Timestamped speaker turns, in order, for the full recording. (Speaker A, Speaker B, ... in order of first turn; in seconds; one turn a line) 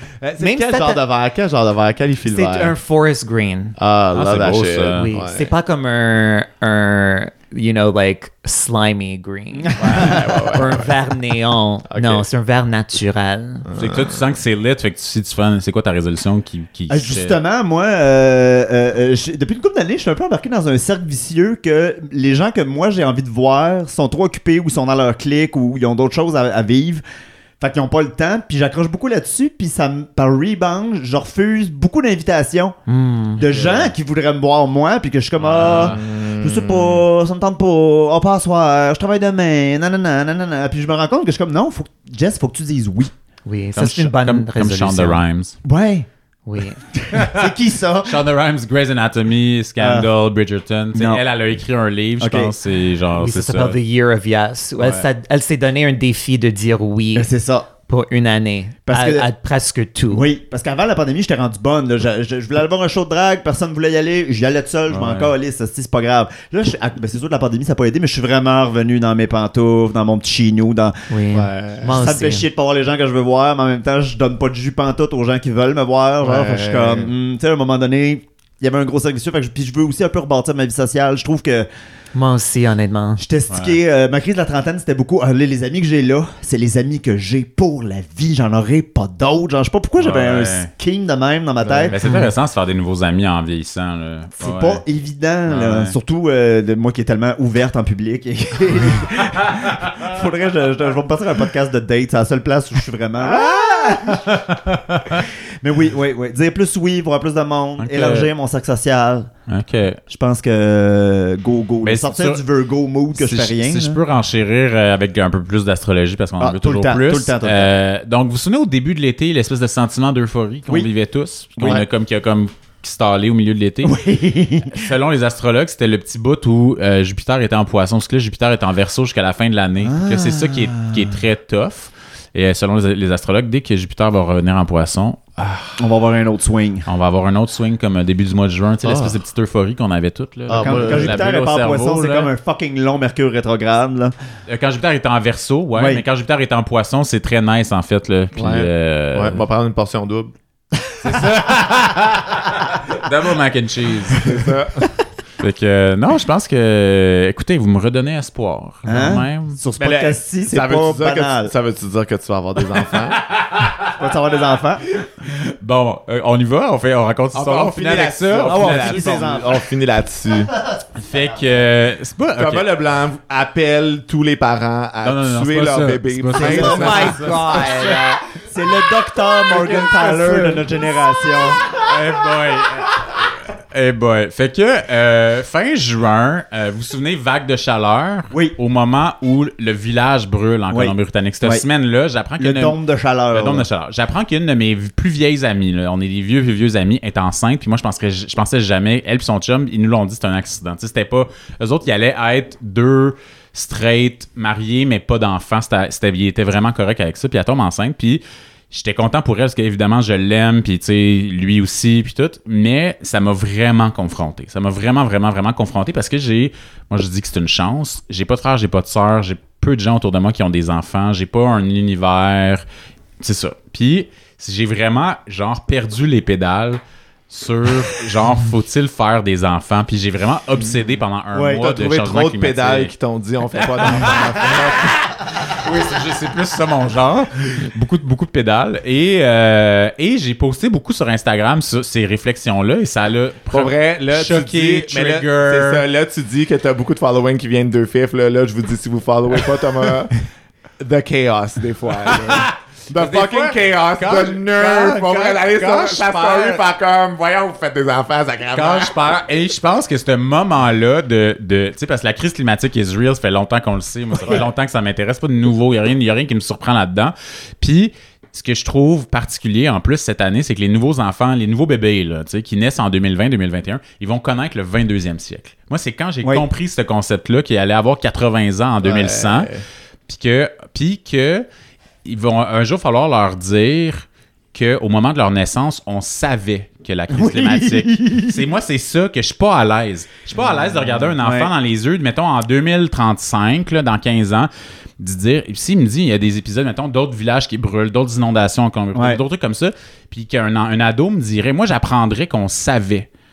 Speaker A: 0.2-2.8
Speaker B: 0.4-1.0
Speaker B: 2.3-3.8
Speaker A: 3.8-5.5
Speaker C: 4.1-5.1
Speaker B: 4.9-13.7
Speaker D: 9.6-10.4
Speaker A: 9.8-10.9
Speaker C: 9.8-10.2
Speaker A: 11.9-12.2
Speaker A: 13.7-14.2
Speaker C: 13.8-17.4
Speaker D: 16.9-27.0
Speaker D: 27.6-32.8
Speaker B: 32.9-33.5
Speaker D: 33.4-43.1
Speaker C: 33.4-33.9
Speaker C: 35.4-36.0
Speaker A: 35.7-37.1
Speaker B: 43.5-45.2
Speaker C: 43.8-45.6
Speaker D: 45.6-46.1
Speaker B: 46.5-46.8
Speaker D: 46.9-48.2
Speaker C: 47.1-53.8
Speaker D: 49.8-50.1
Speaker D: 50.9-51.2
Speaker D: 52.2-52.5
Speaker B: 53.1-57.3
Speaker C: 54.8-55.1
Speaker D: 57.1-57.7
Speaker B: 57.9-60.3
Speaker D: 58.9-59.3
Speaker D: 60.1-71.0
Speaker C: 64.9-65.3
Speaker B: 71.1-72.5
Speaker A: 71.3-72.0
Speaker D: 71.8-81.7
Speaker A: 76.2-77.1
Speaker B: 82.1-83.2
Speaker D: 83.2-92.0
Speaker C: 83.5-83.8
Speaker C: 90.0-90.7
Speaker A: 91.7-91.9
Speaker C: 91.8-94.8
Speaker B: 92.0-92.3
Speaker D: 94.4-104.4
Speaker C: 95.5-96.0
Speaker C: 103.2-105.2
Speaker D: 105.2-109.3
Speaker C: 107.8-108.3
Speaker C: 109.5-110.0
Speaker D: 110.1-114.0
Speaker C: 111.8-112.4
Speaker C: 113.1-124.0
Speaker D: 116.4-117.7
Speaker D: 121.6-121.9
Speaker D: 123.8-124.9
Speaker C: 124.6-135.8
Speaker D: 129.8-131.2
Speaker D: 135.8-136.9
Speaker C: 136.9-142.3
Speaker A: 138.8-139.2
Speaker A: 140.5-141.3
Speaker D: 140.6-144.1
Speaker C: 144.5-149.4
Speaker D: 145.8-146.0
Speaker A: 148.3-150.3
Speaker C: 151.0-154.5
Speaker A: 154.2-154.9
Speaker C: 155.4-159.6
Speaker D: 158.9-161.5
Speaker A: 159.8-163.3
Speaker C: 163.3-163.9
Speaker D: 164.0-164.8
Speaker C: 164.9-169.3
Speaker A: 167.3-170.5
Speaker D: 168.4-169.5
Speaker C: 171.0-172.7
Speaker A: 172.4-177.2
Speaker C: 175.0-178.2
Speaker D: 176.3-177.6
Speaker B: 176.5-178.2
Speaker D: 178.4-181.7
Speaker C: 179.2-180.9
Speaker C: 181.7-192.8
Speaker D: 190.7-191.6
Speaker D: 192.4-193.7
Speaker C: 193.3-222.7
Speaker C: 223.2-232.9
Speaker D: 231.3-231.6
Speaker A: 231.5-235.0
Speaker C: 233.6-245.8
Speaker A: 243.5-250.2
Speaker A: 250.8-258.9
Speaker C: 252.1-256.6
Speaker C: 258.5-279.5
Speaker A: 278.8-279.6
Speaker C: 280.1-281.5
Speaker C: 282.1-303.1
Speaker D: 287.1-288.5
Speaker D: 291.2-291.5
Speaker D: 298.9-299.2